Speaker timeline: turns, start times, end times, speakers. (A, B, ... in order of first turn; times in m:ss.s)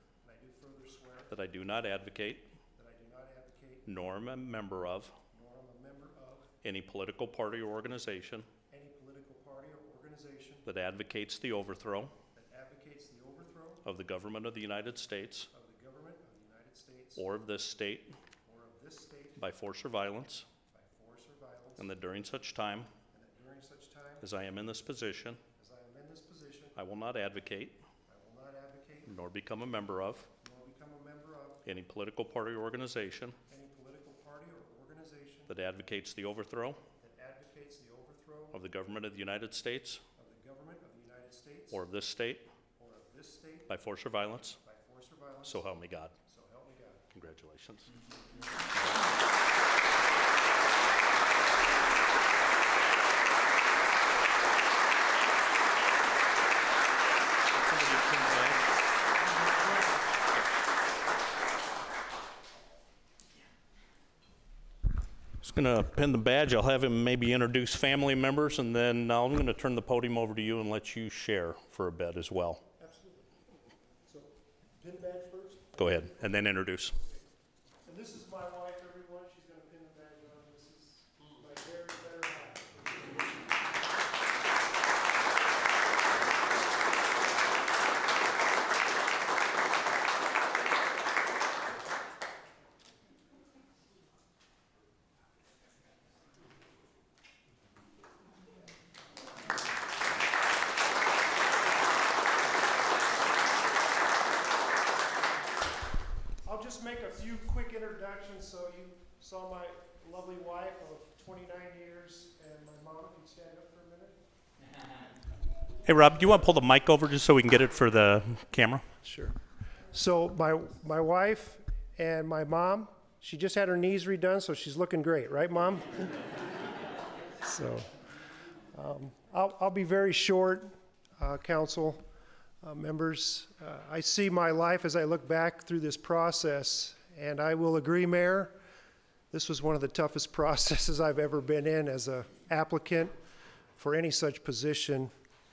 0:00.2-0:01.3 A
0:01.3-0:02.5 B
0:02.8-0:03.9 A
0:03.9-0:05.1 B
0:05.3-0:06.5 A
0:06.6-0:08.5 B
0:08.7-0:10.7 A
0:10.7-0:12.1 B
0:12.3-0:13.8 A
0:13.8-0:15.5 B
0:15.5-0:17.2 A
0:17.2-0:18.2 B
0:18.4-0:19.4 A
0:19.4-0:20.5 B
0:20.7-0:21.9 A
0:21.8-0:22.9 B
0:23.1-0:24.3 A
0:24.2-0:25.4 B
0:25.6-0:26.8 A
0:26.8-0:27.8 B
0:28.1-0:29.2 A
0:29.1-0:30.3 B
0:30.4-0:31.7 A
0:31.7-0:33.4 B
0:33.5-0:35.5 A
0:35.5-0:36.8 B
0:37.0-0:38.6 A
0:38.5-0:40.0 B
0:40.2-0:41.8 A
0:41.7-0:42.5 B
0:42.8-0:43.7 A
0:43.7-0:44.6 B
0:44.6-0:45.7 A
0:45.4-0:46.2 B
0:46.2-0:47.0 A
0:47.1-0:47.9 B
0:48.7-0:49.0 B
0:57.5-0:58.7 B
0:59.3-1:00.1 A
1:05.4-1:12.6 B
1:12.8-1:13.3 A
1:14.1-1:16.2 A
1:15.8-1:17.0 B
1:17.8-1:23.4 A
1:46.4-1:54.2 A
1:55.9-1:58.8 B
1:59.0-1:59.4 A
1:59.9-2:06.3 A
2:07.4-2:07.9 A
2:08.7-2:12.0 A
2:12.6-2:18.6 A
2:19.3-2:23.1 A
2:23.8-2:25.1 A